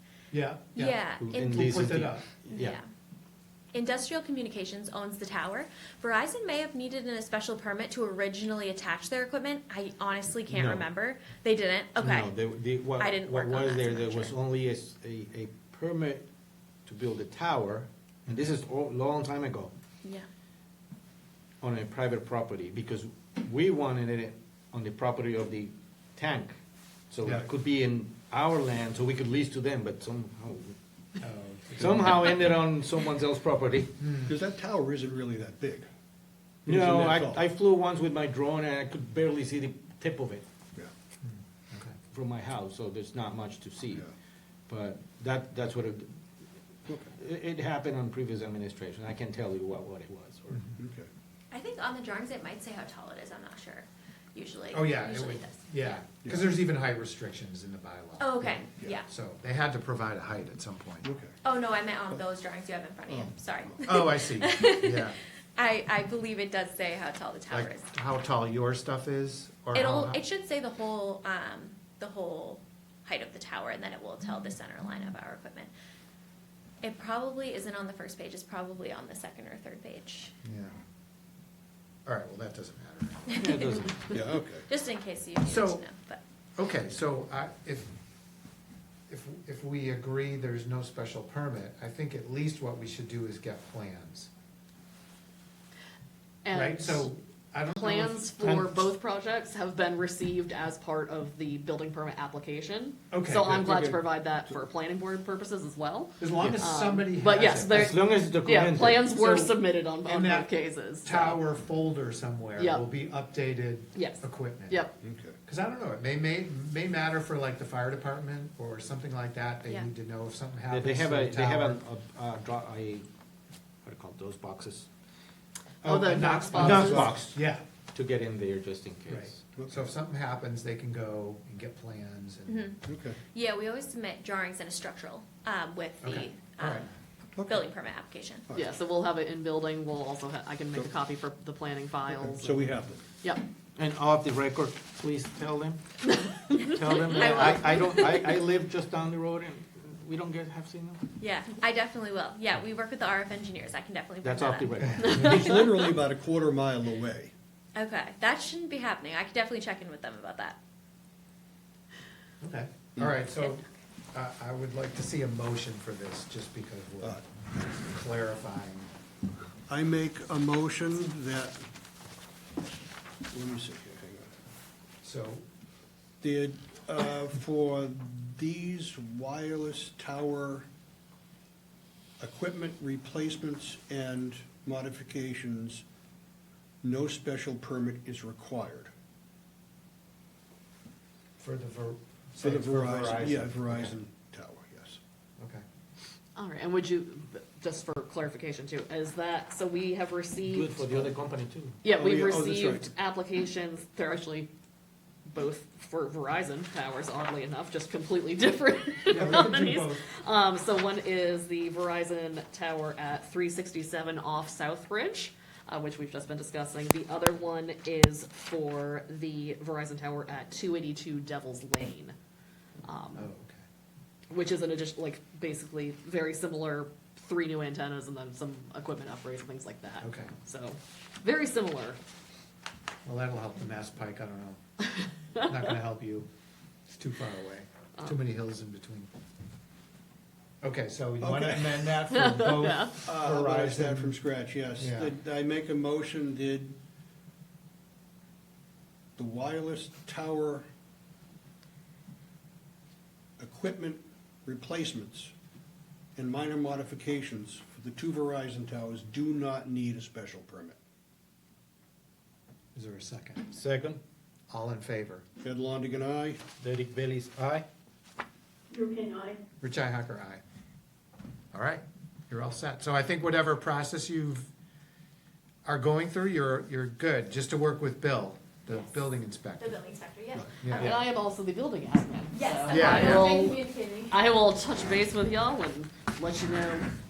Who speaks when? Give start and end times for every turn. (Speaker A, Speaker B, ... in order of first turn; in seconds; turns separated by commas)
Speaker A: 0.3-2.3, Speaker B: 0.7-1.7, Speaker C: 1.2-2.8, Speaker B: 2.5-2.8, Speaker B: 3.7-14.3, Speaker C: 10.5-10.9, Speaker C: 12.0-16.2, Speaker C: 16.9-19.7, Speaker C: 21.6-26.6, Speaker C: 27.1-30.7, Speaker A: 27.2-27.5, Speaker A: 31.2-32.4, Speaker C: 31.8-34.0, Speaker A: 34.0-34.4, Speaker D: 34.3-35.9, Speaker D: 36.6-37.4, Speaker C: 36.6-40.4, Speaker A: 41.2-42.0, Speaker C: 42.1-44.1, Speaker C: 44.7-46.1, Speaker D: 46.9-47.1, Speaker C: 47.1-50.7, Speaker D: 50.8-51.1, Speaker B: 51.5-56.1, Speaker A: 54.7-61.1, Speaker B: 58.2-59.1, Speaker D: 61.0-61.3, Speaker B: 61.4-67.9, Speaker D: 63.2-63.8, Speaker A: 63.8-65.2, Speaker A: 67.5-70.2, Speaker B: 69.7-75.7, Speaker B: 76.8-80.3, Speaker A: 80.4-80.7, Speaker A: 82.0-83.5, Speaker B: 83.3-86.2, Speaker C: 83.3-84.2, Speaker D: 84.1-84.7, Speaker A: 85.4-85.8, Speaker A: 86.6-87.9, Speaker A: 89.1-94.3, Speaker E: 96.4-97.1, Speaker A: 96.5-98.3, Speaker E: 97.8-111.4, Speaker C: 98.4-98.7, Speaker A: 103.1-104.0, Speaker A: 106.2-107.9, Speaker C: 106.4-106.7, Speaker C: 107.7-109.1, Speaker A: 108.9-110.5, Speaker A: 111.0-114.9, Speaker E: 112.6-112.8, Speaker E: 113.9-114.9, Speaker D: 115.0-115.3, Speaker A: 115.4-121.8, Speaker C: 120.7-123.0, Speaker C: 123.8-124.9, Speaker E: 125.8-127.1, Speaker A: 125.8-127.6, Speaker C: 126.5-127.4, Speaker D: 126.6-127.0, Speaker C: 127.9-129.4, Speaker A: 129.1-132.8, Speaker D: 129.6-129.9, Speaker B: 132.5-138.5, Speaker D: 132.8-133.2, Speaker A: 136.0-136.9, Speaker E: 138.5-142.7, Speaker D: 142.1-143.0, Speaker E: 143.2-143.5, Speaker C: 143.8-145.8, Speaker E: 146.0-148.1, Speaker C: 146.7-151.0, Speaker B: 147.0-148.2, Speaker B: 151.2-155.9, Speaker C: 154.2-155.4, Speaker A: 154.8-155.6, Speaker D: 155.1-157.3, Speaker B: 157.7-160.6, Speaker A: 162.4-168.9, Speaker B: 163.3-163.6, Speaker D: 169.7-171.6, Speaker D: 173.3-174.3, Speaker A: 175.0-175.4, Speaker D: 176.2-180.7, Speaker D: 182.2-185.8, Speaker D: 186.8-188.9, Speaker A: 191.4-194.0, Speaker D: 192.4-195.0, Speaker A: 195.4-195.6, Speaker E: 196.3-201.1, Speaker C: 200.5-201.8, Speaker E: 201.8-204.5, Speaker D: 201.9-202.9, Speaker E: 205.2-222.2, Speaker A: 209.1-210.1, Speaker E: 222.8-223.3, Speaker A: 223.1-223.6, Speaker E: 224.3-232.0, Speaker A: 230.0-230.3, Speaker A: 233.0-234.6, Speaker A: 235.4-236.3, Speaker A: 236.9-239.1, Speaker A: 240.6-244.2, Speaker D: 241.2-242.0, Speaker E: 242.1-243.0, Speaker D: 243.0-246.8, Speaker A: 244.8-245.1, Speaker D: 249.2-250.6, Speaker D: 253.4-255.3, Speaker D: 256.1-260.8, Speaker A: 262.7-263.5, Speaker C: 263.5-264.0, Speaker A: 264.5-265.2, Speaker D: 265.4-266.4, Speaker C: 266.6-267.6, Speaker B: 268.8-269.3, Speaker A: 269.6-270.4, Speaker A: 271.5-274.5, Speaker A: 275.6-279.8, Speaker B: 278.7-281.0, Speaker A: 280.4-281.0, Speaker E: 280.7-286.9, Speaker B: 282.3-284.2, Speaker A: 282.7-283.2